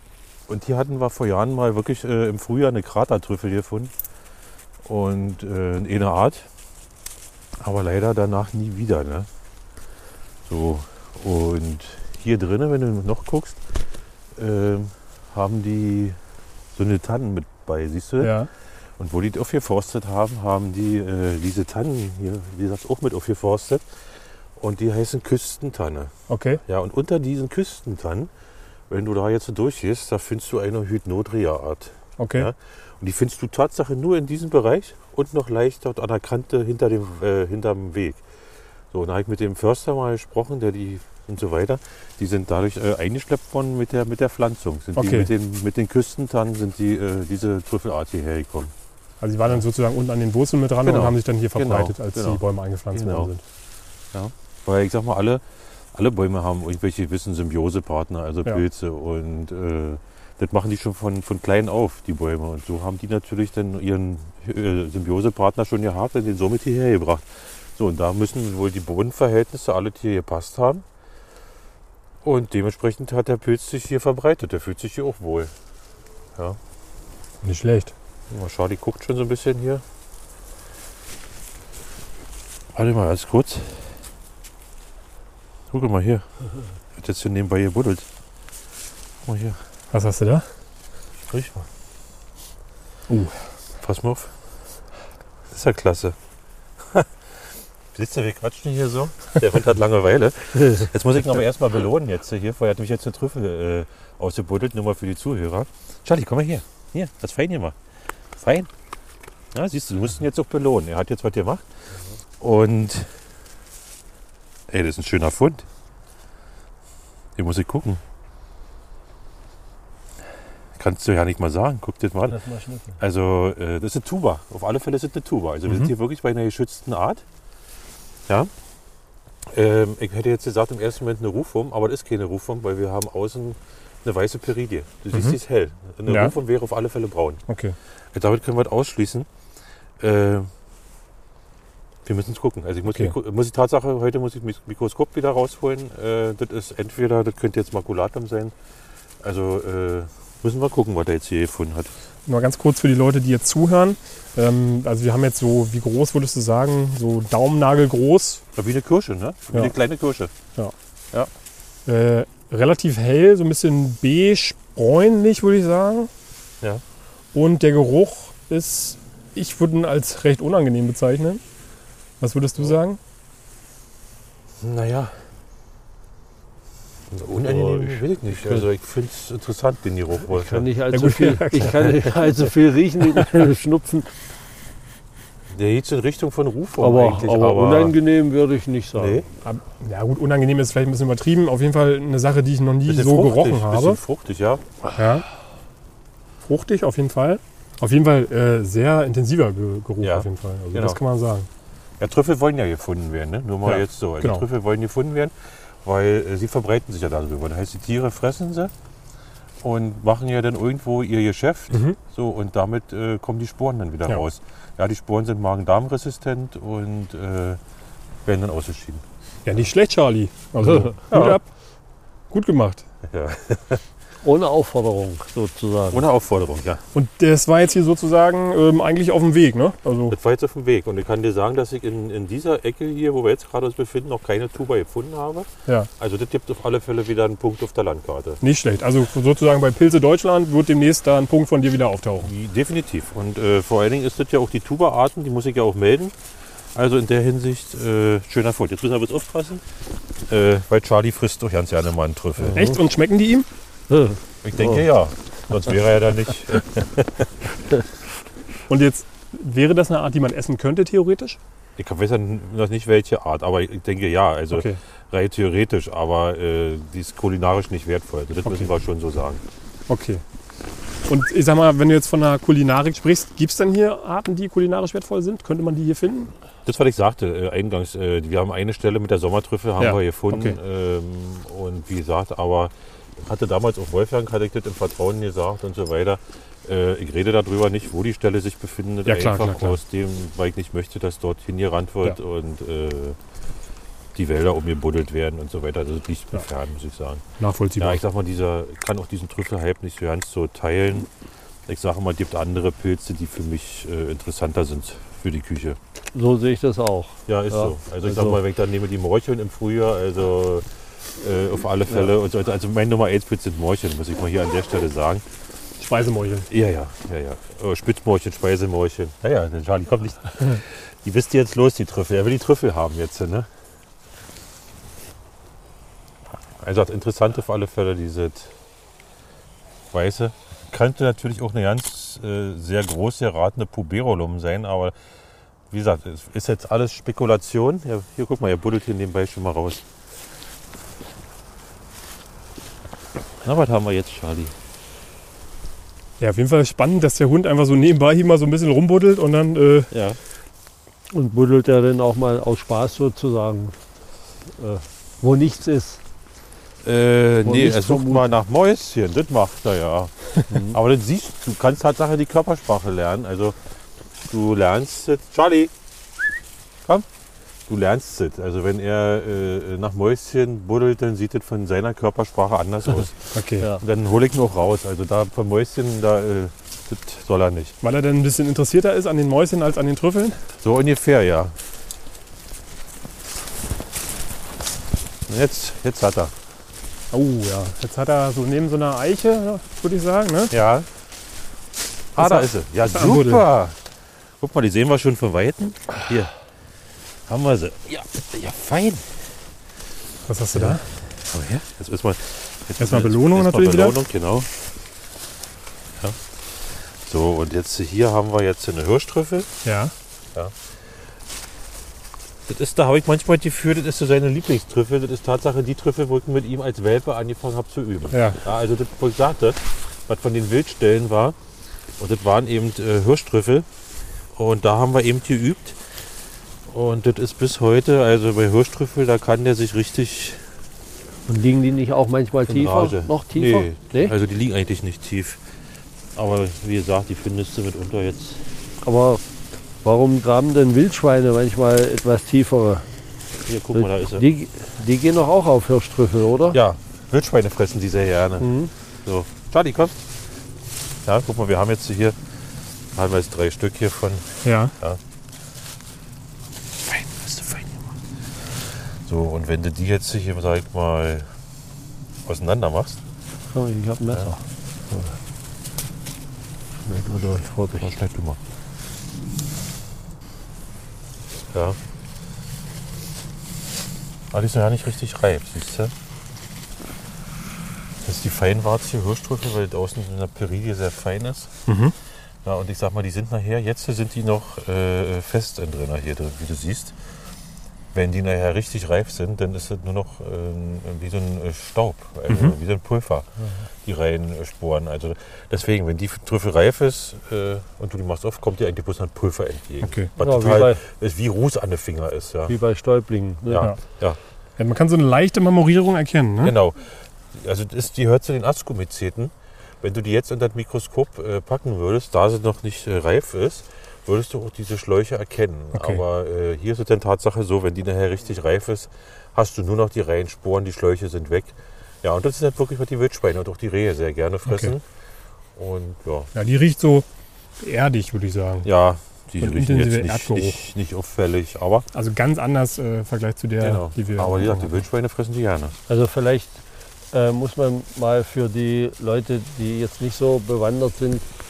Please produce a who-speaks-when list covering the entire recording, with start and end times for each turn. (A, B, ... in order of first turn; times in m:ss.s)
0:00.5-0:03.9 A
0:04.8-0:06.5 A
0:07.6-0:09.3 A
0:10.4-0:13.7 A
0:14.4-0:16.2 A
0:16.8-0:18.4 A
0:18.2-0:18.5 B
0:19.0-0:26.1 A
0:26.3-0:26.6 B
0:26.7-0:28.3 A
0:28.9-0:38.2 A
0:32.2-0:32.5 B
0:38.9-0:48.7 A
0:45.0-0:45.3 B
0:49.2-0:53.4 B
0:50.8-0:52.4 A
0:52.9-0:53.3 A
0:54.1-1:10.8 A
1:12.2-1:15.5 A
1:17.4-1:17.9 B
1:18.3-1:19.8 A
1:22.7-1:24.0 A
1:25.7-1:26.3 A
1:26.9-1:28.1 A
1:29.2-1:29.6 A
1:29.9-1:30.5 B
1:31.2-1:31.7 A
1:33.1-1:33.4 B
1:33.8-1:34.3 A
1:35.5-1:36.2 A
1:37.9-1:47.8 A
1:48.3-1:48.7 A
1:49.5-1:51.7 A
1:52.4-1:53.2 A
1:54.7-1:55.7 A
1:57.4-1:58.0 A
2:00.8-2:02.4 A
2:02.3-2:03.0 C
2:03.0-2:07.2 A
2:09.5-2:17.4 A
2:16.1-2:16.4 B
2:17.5-2:17.8 B
2:18.1-2:19.3 A
2:20.0-2:20.5 A
2:22.0-2:28.5 A
2:29.2-2:31.9 A
2:32.2-2:38.4 B
2:38.6-2:40.3 A
2:41.9-2:46.1 B
2:47.3-2:51.4 B
2:52.2-2:53.0 B
2:54.6-2:55.2 A
2:57.1-3:00.7 A
2:57.3-2:58.7 C
3:00.3-3:04.1 C
3:00.9-3:02.0 B
3:05.5-3:08.0 A
3:06.8-3:09.2 C
3:09.0-3:09.3 A
3:09.4-3:14.0 B
3:12.9-3:14.8 A
3:15.0-3:15.2 B
3:16.4-3:21.5 B
3:20.0-3:21.0 A
3:22.0-3:28.7 A
3:23.7-3:24.4 B
3:29.6-3:37.6 A
3:31.7-3:32.0 B
3:38.2-3:39.0 A
3:39.4-3:41.5 B
3:41.1-3:41.4 A
3:42.3-3:42.8 B
3:43.0-3:43.8 A
3:44.2-3:46.1 C
3:45.9-3:46.8 A
3:46.9-3:50.2 B
3:50.1-3:58.4 A
3:58.4-4:02.3 B
4:02.2-4:06.2 A
4:06.7-4:09.6 A
4:10.3-4:12.7 A
4:12.4-4:12.8 C
4:12.5-4:13.5 B
4:13.9-4:14.8 C
4:14.4-4:17.3 A
4:18.7-4:21.4 B
4:21.8-4:29.4 A
4:24.5-4:24.8 B
4:29.9-4:30.2 B
4:31.1-4:36.3 B
4:36.7-4:53.2 A
4:39.8-4:40.6 B
4:49.1-4:49.8 B
4:54.2-4:57.2 A
4:57.4-4:58.0 B
4:57.8-5:01.1 A
5:01.7-5:05.8 A
5:06.1-5:08.4 C
5:07.3-5:15.2 A
5:15.8-5:16.5 B
5:16.5-5:23.5 A
5:26.6-5:28.6 A
5:29.9-5:35.0 A
5:35.7-5:39.8 A
5:43.4-5:44.6 A
5:46.2-5:49.9 B
5:49.9-5:50.2 A
5:51.1-5:53.8 C
5:54.4-5:56.0 C
5:56.8-6:03.6 A
5:57.4-5:58.3 C
6:00.5-6:00.8 C
6:04.3-6:05.7 A
6:07.7-6:17.8 A
6:13.3-6:13.7 B
6:17.8-6:20.4 B
6:20.6-6:21.6 A
6:25.3-6:26.3 A
6:27.1-6:30.5 B
6:30.5-6:30.9 A
6:32.2-6:33.8 A
6:32.2-6:33.4 B
6:34.4-6:36.4 A
6:37.3-6:39.2 A
6:40.3-6:40.9 B
6:40.5-6:44.6 A
6:42.8-6:44.0 B
6:46.0-6:49.5 A
6:49.6-6:49.9 B
6:50.4-6:50.7 A
6:52.5-7:01.4 A
6:58.1-6:58.4 B
7:02.0-7:03.7 A
7:04.3-7:06.0 A
7:06.7-7:10.5 A
7:11.2-7:14.1 C
7:12.5-7:15.4 A
7:16.2-7:18.5 A
7:18.8-7:19.2 C
7:19.8-7:22.9 C
7:23.5-7:24.2 A
7:23.7-7:26.6 C
7:26.5-7:30.0 A
7:28.4-7:28.7 C
7:31.0-7:32.2 A
7:32.9-7:35.0 A
7:34.4-7:34.7 B
7:36.8-7:37.9 A
7:38.5-7:41.3 A
7:42.2-7:43.0 A
7:43.5-7:45.2 C
7:46.8-7:47.9 C
7:47.8-7:48.4 A
7:51.5-7:51.8 A
7:54.3-7:55.9 A
7:58.0-8:01.6 A
8:01.7-8:02.0 B
8:02.4-8:07.0 A
8:07.9-8:22.6 A
8:19.8-8:20.1 B
8:20.2-8:20.8 C
8:22.5-8:23.7 C
8:23.5-8:24.2 A
8:24.6-8:26.5 B
8:26.4-8:44.8 A
8:35.8-8:36.0 B
8:44.5-8:44.7 B
8:45.5-8:46.3 A
8:46.3-8:47.0 B
8:47.6-8:48.7 B
8:48.6-8:51.9 A
8:49.4-8:50.6 B
8:51.9-8:54.7 B
8:53.6-8:55.8 A
8:55.9-9:01.3 C